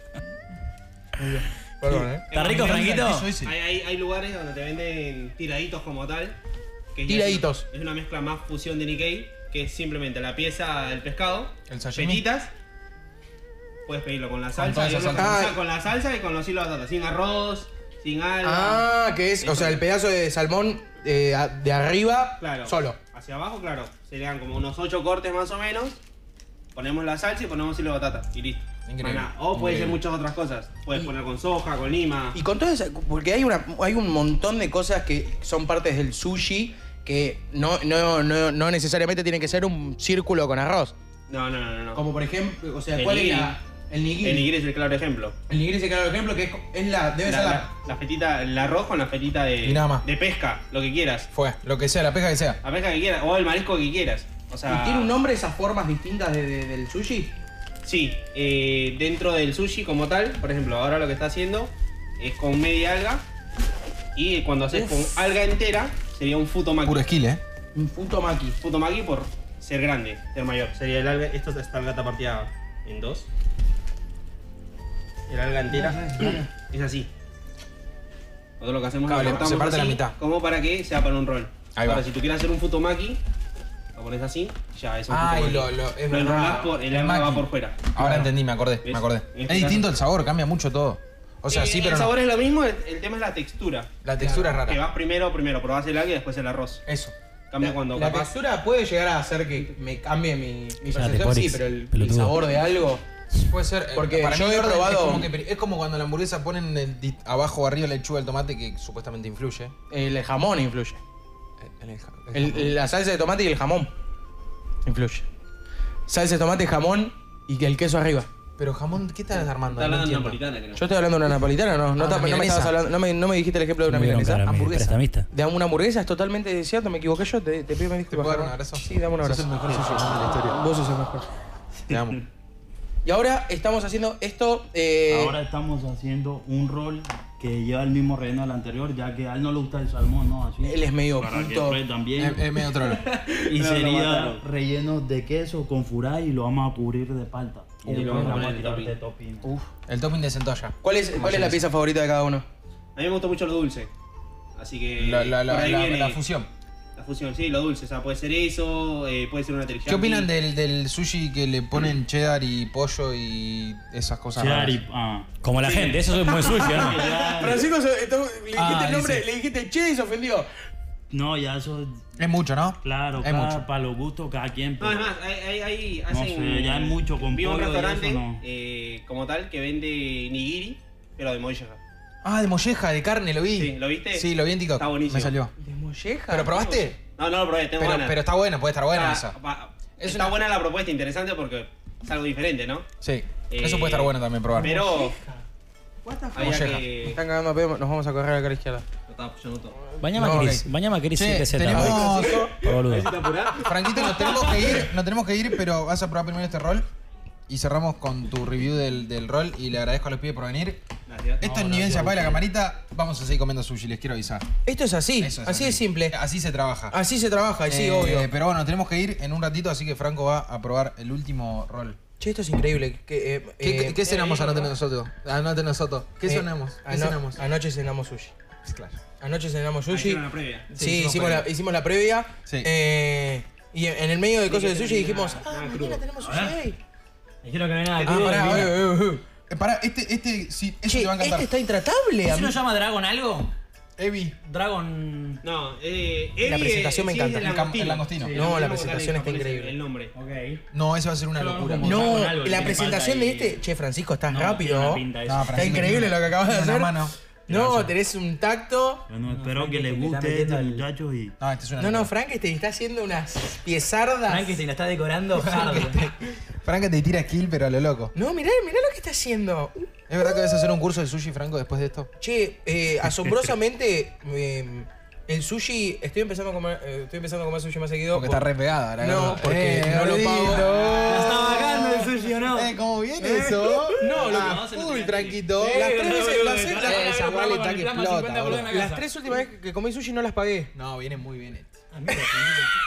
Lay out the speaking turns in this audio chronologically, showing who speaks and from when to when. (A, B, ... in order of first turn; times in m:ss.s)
0:01.2-0:02.2 A
0:02.0-0:03.5 B
0:02.3-0:03.3 C
0:02.3-0:06.4 D
0:06.9-0:12.5 D
0:07.1-0:07.7 A
0:11.7-0:12.2 B
0:13.9-0:18.8 D
0:14.5-0:15.5 B
0:15.2-0:15.6 A
0:18.4-0:23.0 A
0:19.4-0:19.8 D
0:22.4-0:26.0 D
0:26.7-0:32.4 D
0:28.9-0:30.0 B
0:32.3-0:40.9 A
0:41.3-0:42.0 D
0:42.0-0:44.5 A
0:43.0-0:43.6 D
0:44.2-0:45.4 D
0:45.5-0:47.7 A
0:47.2-0:51.3 D
0:49.6-0:50.1 B
0:51.3-0:52.6 B
0:52.6-0:55.1 D
0:54.7-0:57.3 A
0:57.8-1:03.2 D
1:04.2-1:07.1 D
1:06.8-1:07.4 B
1:07.8-1:08.6 A
1:08.6-1:13.3 D
1:15.3-1:17.1 D
1:15.7-1:16.5 A
1:18.6-1:23.2 D
1:19.1-1:20.2 B
1:21.8-1:22.0 B
1:24.0-1:28.3 D
1:25.1-1:32.1 B
1:28.8-1:29.9 D
1:31.5-1:36.8 D
1:34.0-1:34.8 B
1:34.2-1:34.5 A
1:36.9-1:37.1 B
1:37.5-1:38.3 D
1:37.6-1:43.0 A
1:40.9-1:42.4 C
1:43.3-1:49.7 B
1:44.0-1:45.3 A
1:49.9-1:51.0 A
1:51.6-1:52.8 B
1:52.3-1:53.9 A
1:54.8-1:55.3 A
1:56.1-1:58.3 A
1:58.6-2:00.4 B
1:59.3-2:00.8 D
2:00.8-2:04.4 A
2:02.0-2:02.8 B
2:03.9-2:05.3 C
2:04.4-2:05.0 B
2:05.3-2:11.3 A
2:08.1-2:10.6 B
2:09.7-2:10.0 E
2:11.9-2:12.2 B
2:11.9-2:12.2 E
2:13.0-2:15.4 A
2:15.1-2:22.6 E
2:20.6-2:21.8 A
2:22.2-2:23.0 B
2:23.0-2:24.4 A
2:23.5-2:29.5 E
2:27.8-2:29.0 D
2:28.0-2:28.4 A
2:29.9-2:31.6 B
2:30.8-2:32.4 A
2:31.2-2:31.5 D
2:33.0-2:33.9 D
2:34.6-2:36.2 D
2:35.0-2:36.5 B
2:37.0-2:40.3 D
2:39.9-2:44.8 B
2:44.4-2:45.3 E
2:45.4-2:47.0 C
2:45.7-2:46.0 D
2:46.3-2:50.5 A
2:46.6-2:47.6 D
2:47.0-2:47.6 E
2:48.6-2:49.2 B
2:51.1-2:52.0 E
2:52.2-2:53.7 B
2:52.8-2:55.2 E
2:54.8-3:01.8 D
2:56.1-2:58.4 E
3:02.2-3:05.5 B
3:03.6-3:05.4 D
3:05.6-3:06.8 A
3:06.3-3:07.0 B
3:06.8-3:08.2 D
3:07.8-3:09.4 B
3:08.9-3:12.9 D
3:10.0-3:10.4 B
3:13.0-3:14.8 B
3:13.5-3:15.2 D
3:14.5-3:15.4 A
3:16.0-3:18.9 A
3:16.3-3:17.2 D
3:16.4-3:17.1 B
3:19.1-3:19.8 D
3:19.9-3:20.6 A
3:20.0-3:23.1 C
3:20.2-3:22.5 B
3:21.7-3:24.9 A
3:22.9-3:23.7 D
3:23.6-3:26.9 B
3:27.5-3:30.8 B
3:31.1-3:31.4 D
3:31.4-3:34.5 B
3:31.4-3:32.4 E
3:34.7-3:36.2 A
3:35.2-3:37.0 B
3:36.9-3:38.3 A
3:37.7-3:42.0 B
3:42.2-3:44.2 A
3:43.6-3:47.4 B
3:44.1-3:44.7 D
3:46.3-3:48.3 A
3:48.6-3:49.0 B
3:49.2-3:56.8 A
3:49.9-3:50.7 D
3:50.7-3:51.5 B
3:54.5-3:56.4 D
3:56.2-3:56.6 C
3:57.4-3:58.8 C
3:58.0-4:01.5 B
3:58.0-3:59.2 A
4:00.9-4:02.6 A
4:02.3-4:03.5 C
4:04.0-4:04.4 B
4:04.5-4:05.4 C
4:05.4-4:10.1 D
4:06.4-4:07.8 A
4:07.4-4:08.4 B
4:08.2-4:08.6 C
4:08.3-4:09.8 A
4:10.1-4:10.6 C
4:10.7-4:12.0 B
4:11.4-4:13.5 C
4:11.8-4:19.0 A
4:12.2-4:13.1 E
4:14.3-4:16.1 C
4:14.3-4:15.0 E
4:15.2-4:17.1 B
4:19.1-4:21.4 E
4:19.3-4:20.9 C
4:21.4-4:22.1 B
4:21.8-4:24.6 A
4:24.3-4:26.0 C
4:25.4-4:28.1 B
4:28.2-4:30.6 A
4:30.1-4:32.1 B
4:32.2-4:42.0 A
4:33.2-4:33.5 C
4:38.1-4:46.1 B
4:41.1-4:44.7 C
4:44.0-4:47.2 A
4:44.2-4:45.2 D
4:45.5-4:49.0 C
4:46.7-4:48.9 B
4:48.5-4:50.7 A
4:50.7-4:51.8 B
4:51.9-4:52.7 C